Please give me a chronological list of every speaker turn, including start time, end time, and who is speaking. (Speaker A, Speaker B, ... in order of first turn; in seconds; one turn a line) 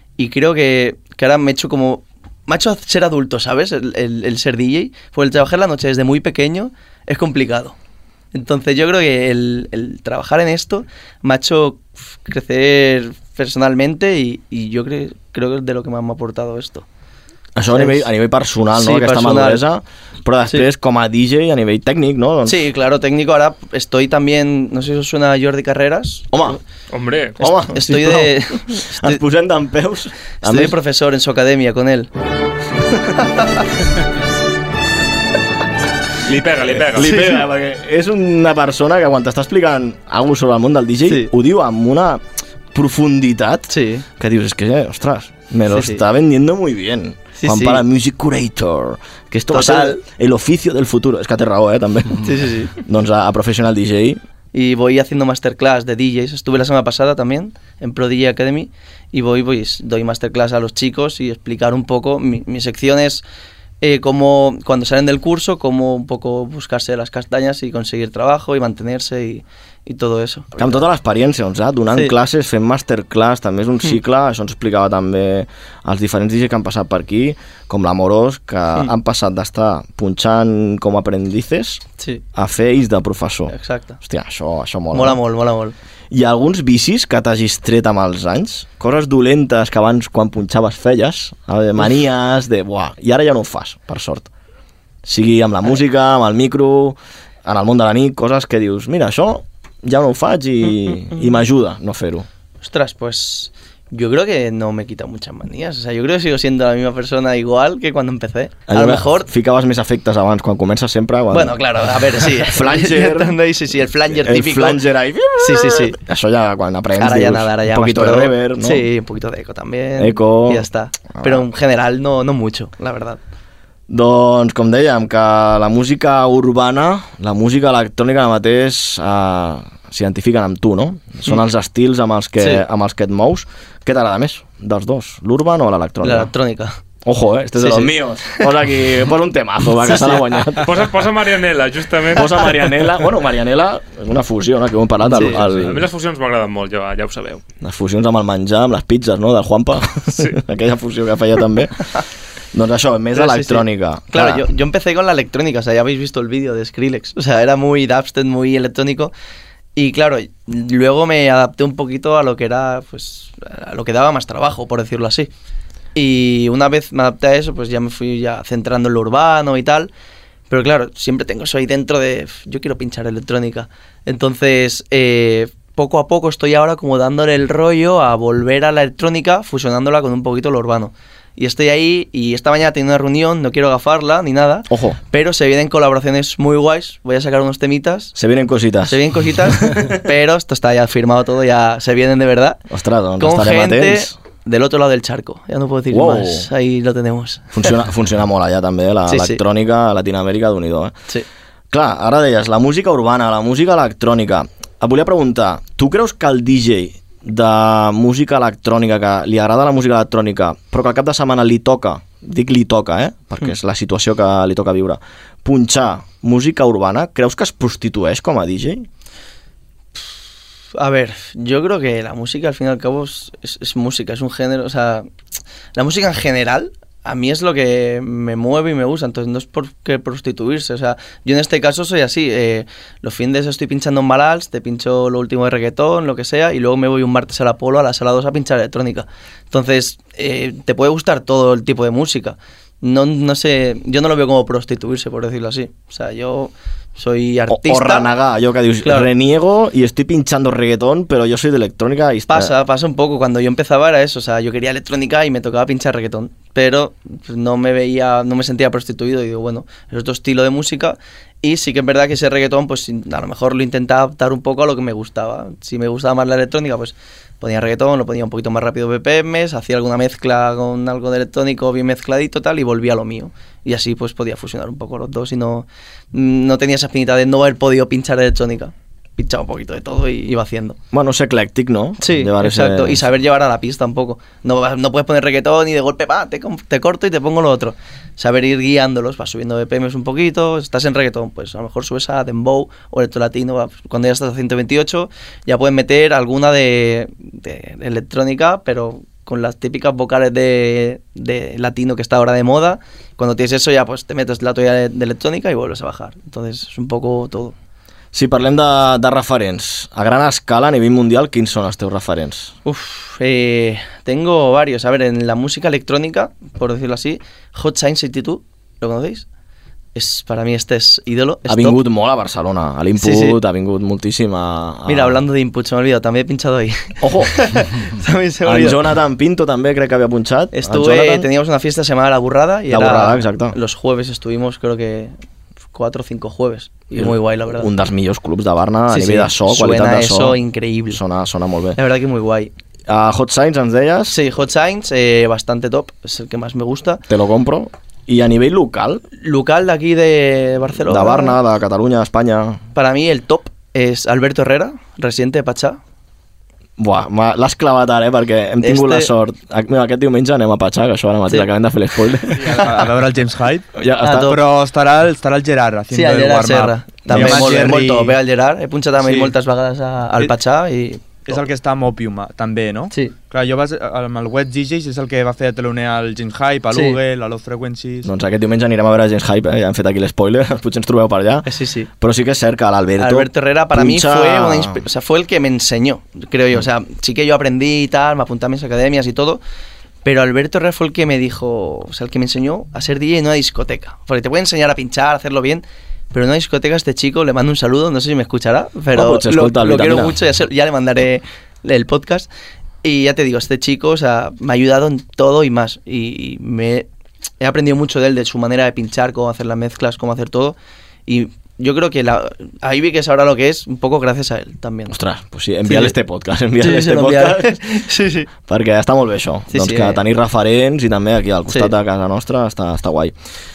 Speaker A: 0.2-7.8
Speaker A: 8.3-16.9
Speaker B: 17.6-22.6
Speaker A: 17.7-18.1
Speaker A: 18.8-19.6
Speaker A: 22.4-26.6
Speaker B: 26.3-26.6
Speaker C: 26.9-27.4
Speaker B: 27.4-30.8
Speaker A: 27.4-29.2
Speaker A: 30.4-32.1
Speaker A: 33.2-33.6
Speaker C: 36.3-37.1
Speaker B: 36.6-42.2
Speaker A: 37.0-37.4
Speaker A: 41.1-41.3
Speaker B: 42.7-52.2
Speaker A: 43.7-44.1
Speaker A: 45.7-46.0
Speaker A: 47.4-47.8
Speaker A: 49.5-50.0
Speaker A: 52.2-52.7
Speaker B: 52.8-54.2
Speaker A: 54.5-63.2
Speaker A: 63.8-70.8
Speaker B: 70.6-81.8
Speaker B: 82.3-85.2
Speaker A: 83.5-84.0
Speaker A: 84.9-85.8
Speaker B: 86.1-94.3
Speaker B: 95.0-102.3
Speaker A: 102.6-109.3
Speaker B: 108.7-111.6
Speaker A: 111.3-114.8
Speaker B: 112.2-113.3
Speaker B: 114.2-118.9
Speaker A: 115.4-116.0
Speaker A: 117.0-123.2
Speaker B: 120.0-121.5
Speaker B: 123.9-136.3
Speaker A: 136.0-136.8
Speaker B: 137.1-140.9
Speaker A: 137.6-138.4
Speaker A: 139.8-140.2
Speaker C: 140.7-142.4
Speaker B: 142.1-145.9
Speaker A: 145.1-145.4
Speaker C: 145.5-147.4
Speaker B: 147.6-151.8
Speaker B: 152.5-154.5
Speaker A: 153.2-159.1
Speaker A: 159.8-165.3
Speaker A: 165.9-169.9
Speaker A: 170.5-188.2
Speaker B: 184.7-185.0
Speaker B: 188.2-189.0
Speaker A: 188.8-192.6
Speaker B: 192.7-194.1
Speaker A: 193.2-197.7
Speaker B: 195.9-196.5
Speaker B: 197.5-200.9
Speaker A: 199.1-199.4
Speaker B: 201.7-218.9
Speaker A: 220.8-225.1
Speaker A: 225.8-248.1
Speaker B: 247.5-252.5
Speaker A: 248.8-249.1
Speaker A: 252.3-280.8
Speaker B: 280.9-283.1
Speaker A: 282.0-307.6
Speaker B: 308.1-312.5
Speaker A: 312.6-319.3
Speaker A: 319.9-321.8
Speaker B: 321.5-325.2
Speaker A: 323.0-323.4
Speaker A: 324.9-328.8
Speaker B: 327.0-327.3
Speaker B: 328.4-331.3
Speaker A: 330.5-335.1
Speaker B: 332.7-333.6
Speaker A: 335.7-337.7
Speaker B: 337.0-340.4
Speaker A: 338.9-341.0
Speaker B: 340.9-341.8
Speaker A: 341.8-342.5
Speaker B: 342.9-344.2
Speaker A: 344.1-347.0
Speaker B: 347.1-349.0
Speaker A: 349.2-351.4
Speaker B: 350.9-352.6
Speaker A: 352.7-355.8
Speaker B: 356.8-362.7
Speaker A: 358.6-359.1
Speaker D: 362.4-363.7
Speaker B: 363.8-364.4
Speaker A: 364.0-364.4
Speaker D: 364.2-368.2
Speaker A: 365.9-371.4
Speaker B: 367.1-367.9
Speaker D: 369.0-369.3
Speaker D: 371.3-378.1
Speaker A: 376.7-377.0
Speaker B: 378.0-381.5
Speaker A: 381.5-381.9
Speaker B: 382.0-384.8
Speaker A: 383.0-389.4
Speaker A: 390.0-402.3
Speaker B: 398.9-400.2
Speaker A: 402.8-406.9
Speaker A: 407.4-414.9
Speaker B: 414.9-417.6
Speaker A: 415.7-415.9
Speaker A: 416.6-418.3
Speaker B: 418.5-423.1
Speaker A: 419.5-420.0